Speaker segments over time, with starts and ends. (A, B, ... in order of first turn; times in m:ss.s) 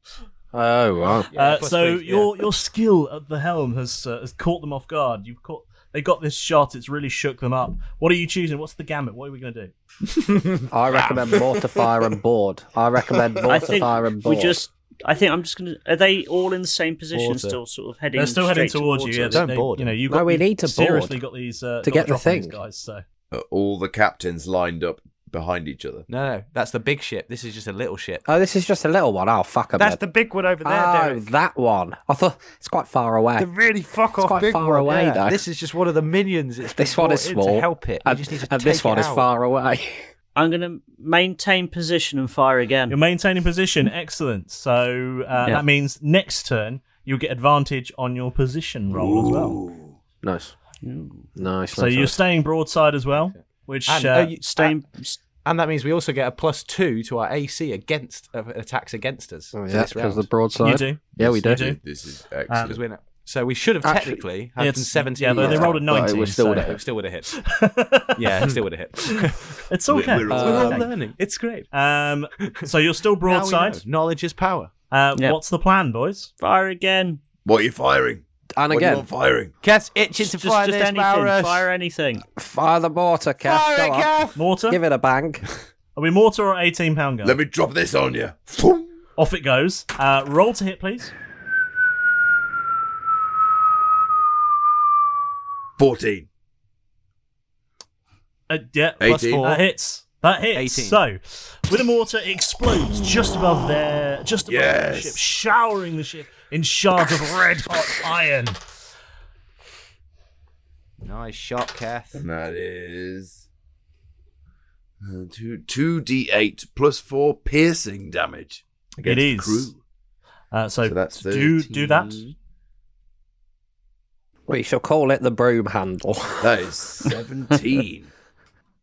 0:00.5-0:01.3 A
0:01.3-0:02.4 B
0:01.3-0:09.7 C
0:10.4-0:12.1 B
0:10.7-0:14.6 A
0:13.5-0:19.0 D
0:17.1-0:17.6 B
0:18.1-0:23.0 C
0:18.9-0:20.0 B
0:20.1-0:21.2 A
0:21.8-0:22.6 A
0:23.3-0:26.1 E
0:26.1-0:28.2 B
0:28.2-0:30.0 A
0:29.8-0:31.2 B
0:30.6-0:33.5 A
0:33.4-0:39.3 B
0:34.2-0:35.4 A
0:36.6-0:40.1 A
0:40.4-0:43.0 D
0:42.9-0:49.6 C
0:48.9-0:49.9 E
0:50.2-0:50.5 A
0:50.8-0:51.3 D
0:51.4-0:52.2 A
0:51.7-0:54.4 C
0:53.1-0:54.8 B
0:54.4-0:55.2 D
0:55.4-1:00.3 B
0:59.5-1:01.8 A
1:00.6-1:01.8 C
1:01.2-1:02.8 E
1:02.5-1:02.8 C
1:02.7-1:05.9 B
1:03.8-1:04.2 A
1:04.6-1:06.8 C
1:05.3-1:06.8 A
1:06.6-1:07.3 B
1:07.3-1:08.4 C
1:08.2-1:09.6 B
1:09.0-1:10.9 C
1:09.9-1:10.8 E
1:10.3-1:10.8 A
1:10.3-1:11.7 B
1:11.7-1:13.8 C
1:12.4-1:12.7 B
1:13.2-1:14.7 B
1:14.9-1:16.3 C
1:16.4-1:17.2 D
1:17.4-1:19.5 E
1:18.6-1:19.0 A
1:19.6-1:21.6 B
1:20.2-1:22.2 D
1:22.4-1:24.2 A
1:23.4-1:24.4 B
1:24.3-1:24.8 C
1:24.7-1:25.4 A
1:25.9-1:27.4 C
1:27.2-1:28.9 E
1:29.2-1:31.1 C
1:35.8-1:36.3 E
1:38.5-1:48.6 C
1:39.0-1:39.5 E
1:39.0-1:39.7 B
1:40.5-1:41.0 B
1:44.4-1:45.2 E
1:51.0-1:52.2 B
1:52.2-1:53.4 E
1:55.0-1:59.8 E
1:59.0-1:59.7 C
2:00.5-2:02.3 C
2:00.8-2:02.3 E
2:04.5-2:06.6 A
2:06.4-2:08.1 E